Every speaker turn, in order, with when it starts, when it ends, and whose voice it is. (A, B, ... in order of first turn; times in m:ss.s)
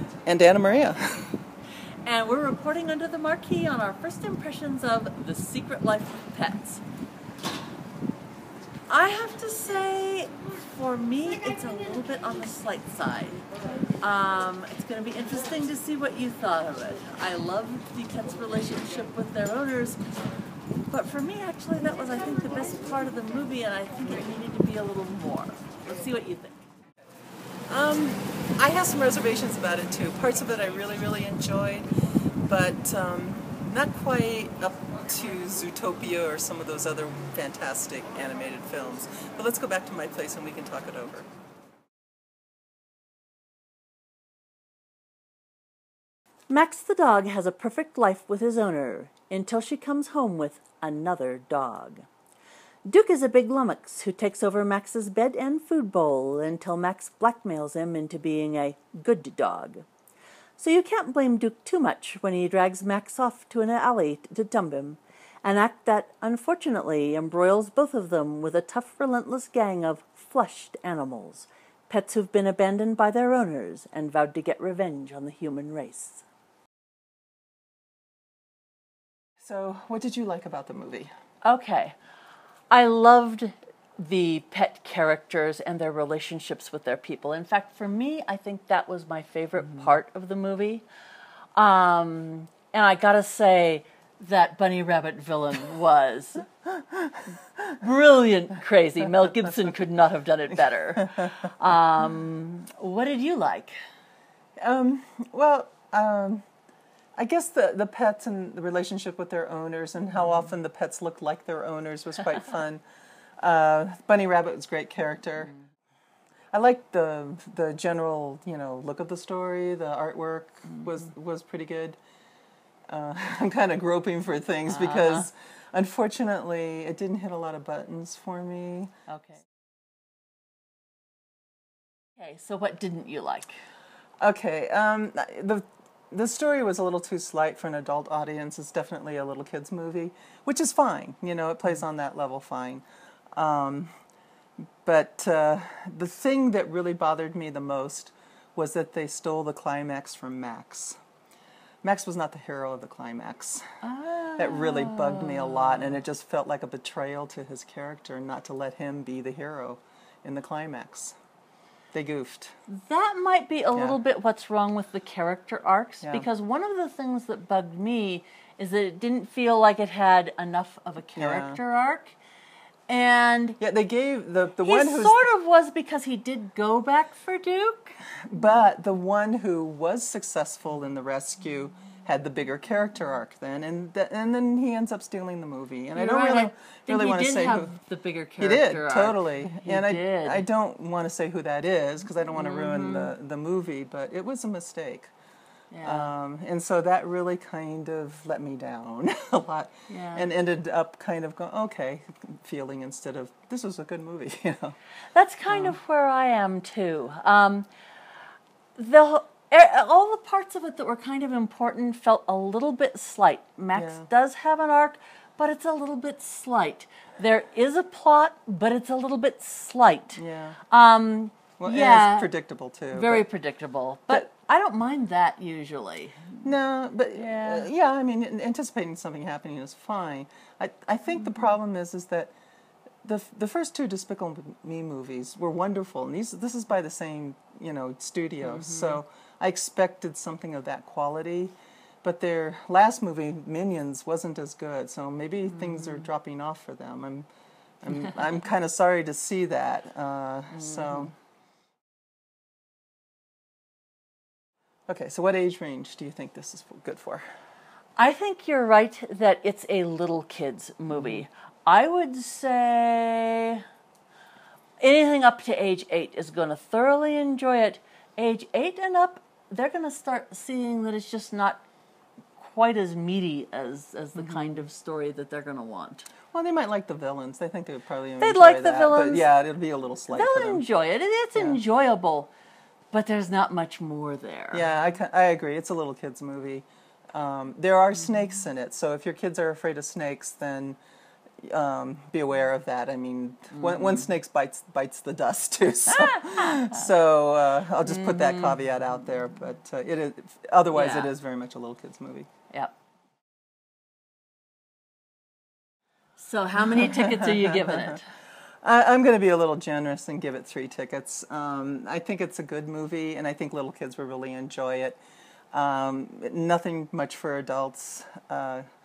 0:00.3-0:01.4 A
0:02.0-0:06.8 B
0:08.9-0:13.4 B
0:14.0-0:20.0 B
0:20.9-0:26.6 B
0:27.7-0:31.9 A
0:32.5-0:41.3 A
0:46.5-0:52.1 B
0:52.9-0:59.8 B
1:00.6-1:16.2 B
1:19.4-1:21.1 A
1:21.4-1:22.0 B
1:22.7-1:30.8 B
1:31.6-1:36.5 B
1:37.7-1:43.8 B
1:44.6-1:46.4 A
1:47.2-1:52.8 A
1:53.4-1:55.5 A
1:56.5-2:02.0 A
2:02.9-2:08.9 A
2:04.7-2:05.3 B
2:09.1-2:09.4 B
2:12.2-2:13.6 B
2:14.2-2:22.8 A
2:23.4-2:23.9 A
2:24.8-2:31.0 A
2:31.8-2:33.7 A
2:33.8-2:36.0 B
2:34.4-2:41.2 A
2:41.9-2:42.5 A
2:42.7-2:52.2 B
2:51.2-2:51.6 A
2:52.9-2:53.6 B
2:53.6-2:55.2 A
2:54.6-2:58.0 B
2:58.3-3:07.7 A
3:05.9-3:10.4 B
3:08.4-3:15.1 A
3:12.4-3:13.2 B
3:15.7-3:16.1 B
3:15.8-3:24.8 A
3:19.9-3:20.3 B
3:25.1-3:27.7 B
3:25.5-3:25.8 A
3:28.8-3:42.3 B
3:33.8-3:34.1 A
3:40.2-3:40.6 A
3:41.6-3:43.2 A
3:42.9-3:46.4 B
3:46.4-3:52.3 A
3:47.2-3:47.7 B
3:53.0-4:07.3 A
3:58.4-3:59.0 B
4:05.5-4:06.1 B
4:07.8-4:11.1 A
4:10.5-4:11.1 B
4:14.9-4:17.3 A
4:18.0-4:23.6 B
4:20.9-4:21.2 A
4:24.8-4:31.6 B
4:32.4-4:36.1 B
4:34.2-4:34.6 A
4:36.3-4:40.6 A
4:38.2-4:39.3 B
4:40.1-4:42.3 B
4:41.4-4:41.6 A
4:42.9-4:44.7 B
4:44.5-4:50.8 A
4:51.4-5:02.3 A
4:53.6-4:54.1 B
4:55.9-4:56.8 B
4:57.8-4:58.6 B
5:00.7-5:01.1 B
5:06.2-5:08.1 B
5:06.6-5:08.0 A
5:08.6-5:15.0 A
5:15.5-5:18.6 A